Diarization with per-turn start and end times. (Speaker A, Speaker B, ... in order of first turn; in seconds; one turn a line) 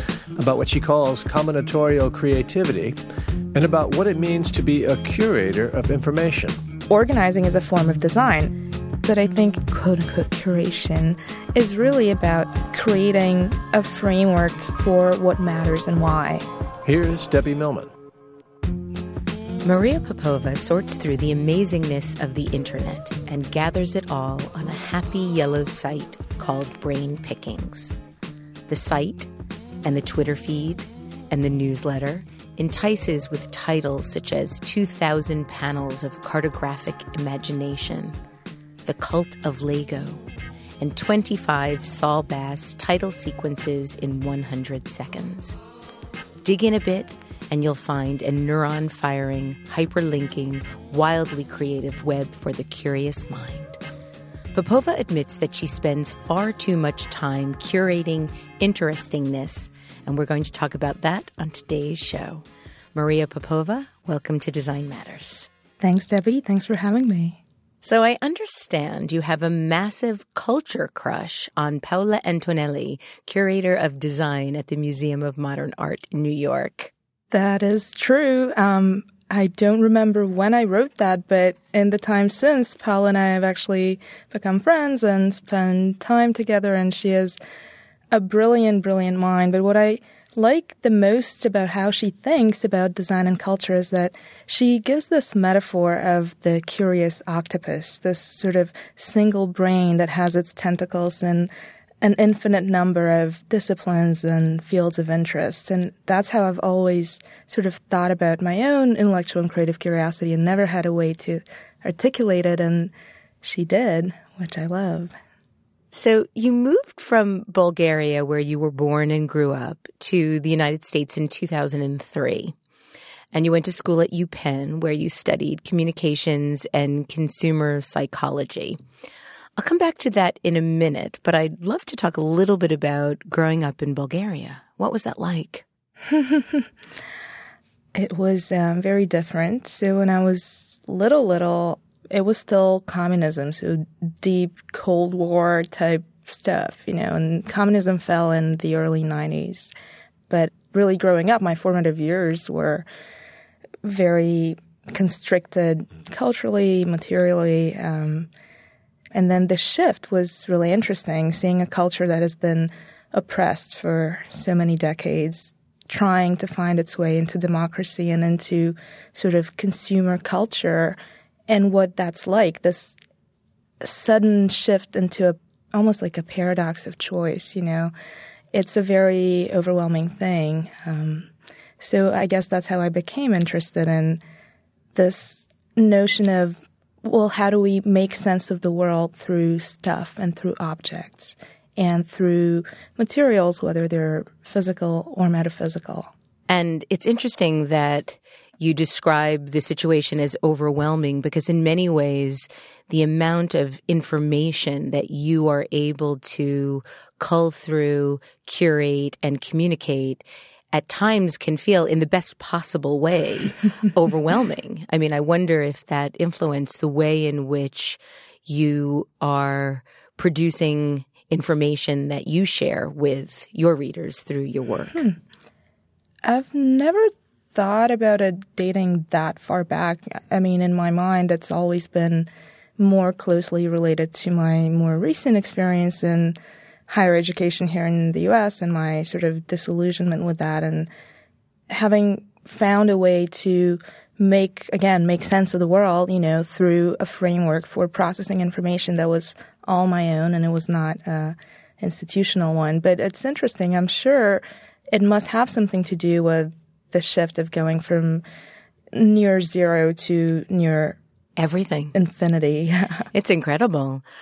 Speaker A: 0.3-3.0
Speaker A: 3.5-6.6
Speaker B: 6.9-16.4
Speaker A: 16.8-17.9
Speaker C: 19.6-27.9
Speaker C: 28.7-29.3
Speaker C: 29.8-38.1
Speaker C: 38.9-40.2
Speaker C: 40.8-45.6
Speaker C: 46.4-53.8
Speaker C: 54.5-65.5
Speaker B: 65.8-67.4
Speaker C: 67.8-76.9
Speaker B: 77.3-87.4
Speaker B: 88.1-101.5
Speaker B: 102.0-115.1
Speaker C: 115.9-122.5
Speaker C: 123.3-128.8
Speaker C: 129.6-135.6
Speaker B: 136.1-136.7
Speaker B: 137.9-149.7
Speaker B: 150.3-152.8
Speaker B: 153.8-158.3
Speaker B: 159.1-171.0
Speaker B: 171.5-172.9
Speaker B: 173.8-177.9
Speaker B: 178.5-184.2
Speaker B: 184.9-196.1
Speaker C: 196.5-225.0
Speaker B: 226.2-236.4
Speaker B: 236.9-240.9
Speaker B: 241.7-258.2
Speaker B: 258.9-261.0
Speaker C: 261.4-261.9
Speaker B: 261.9-263.1
Speaker C: 263.1-264.0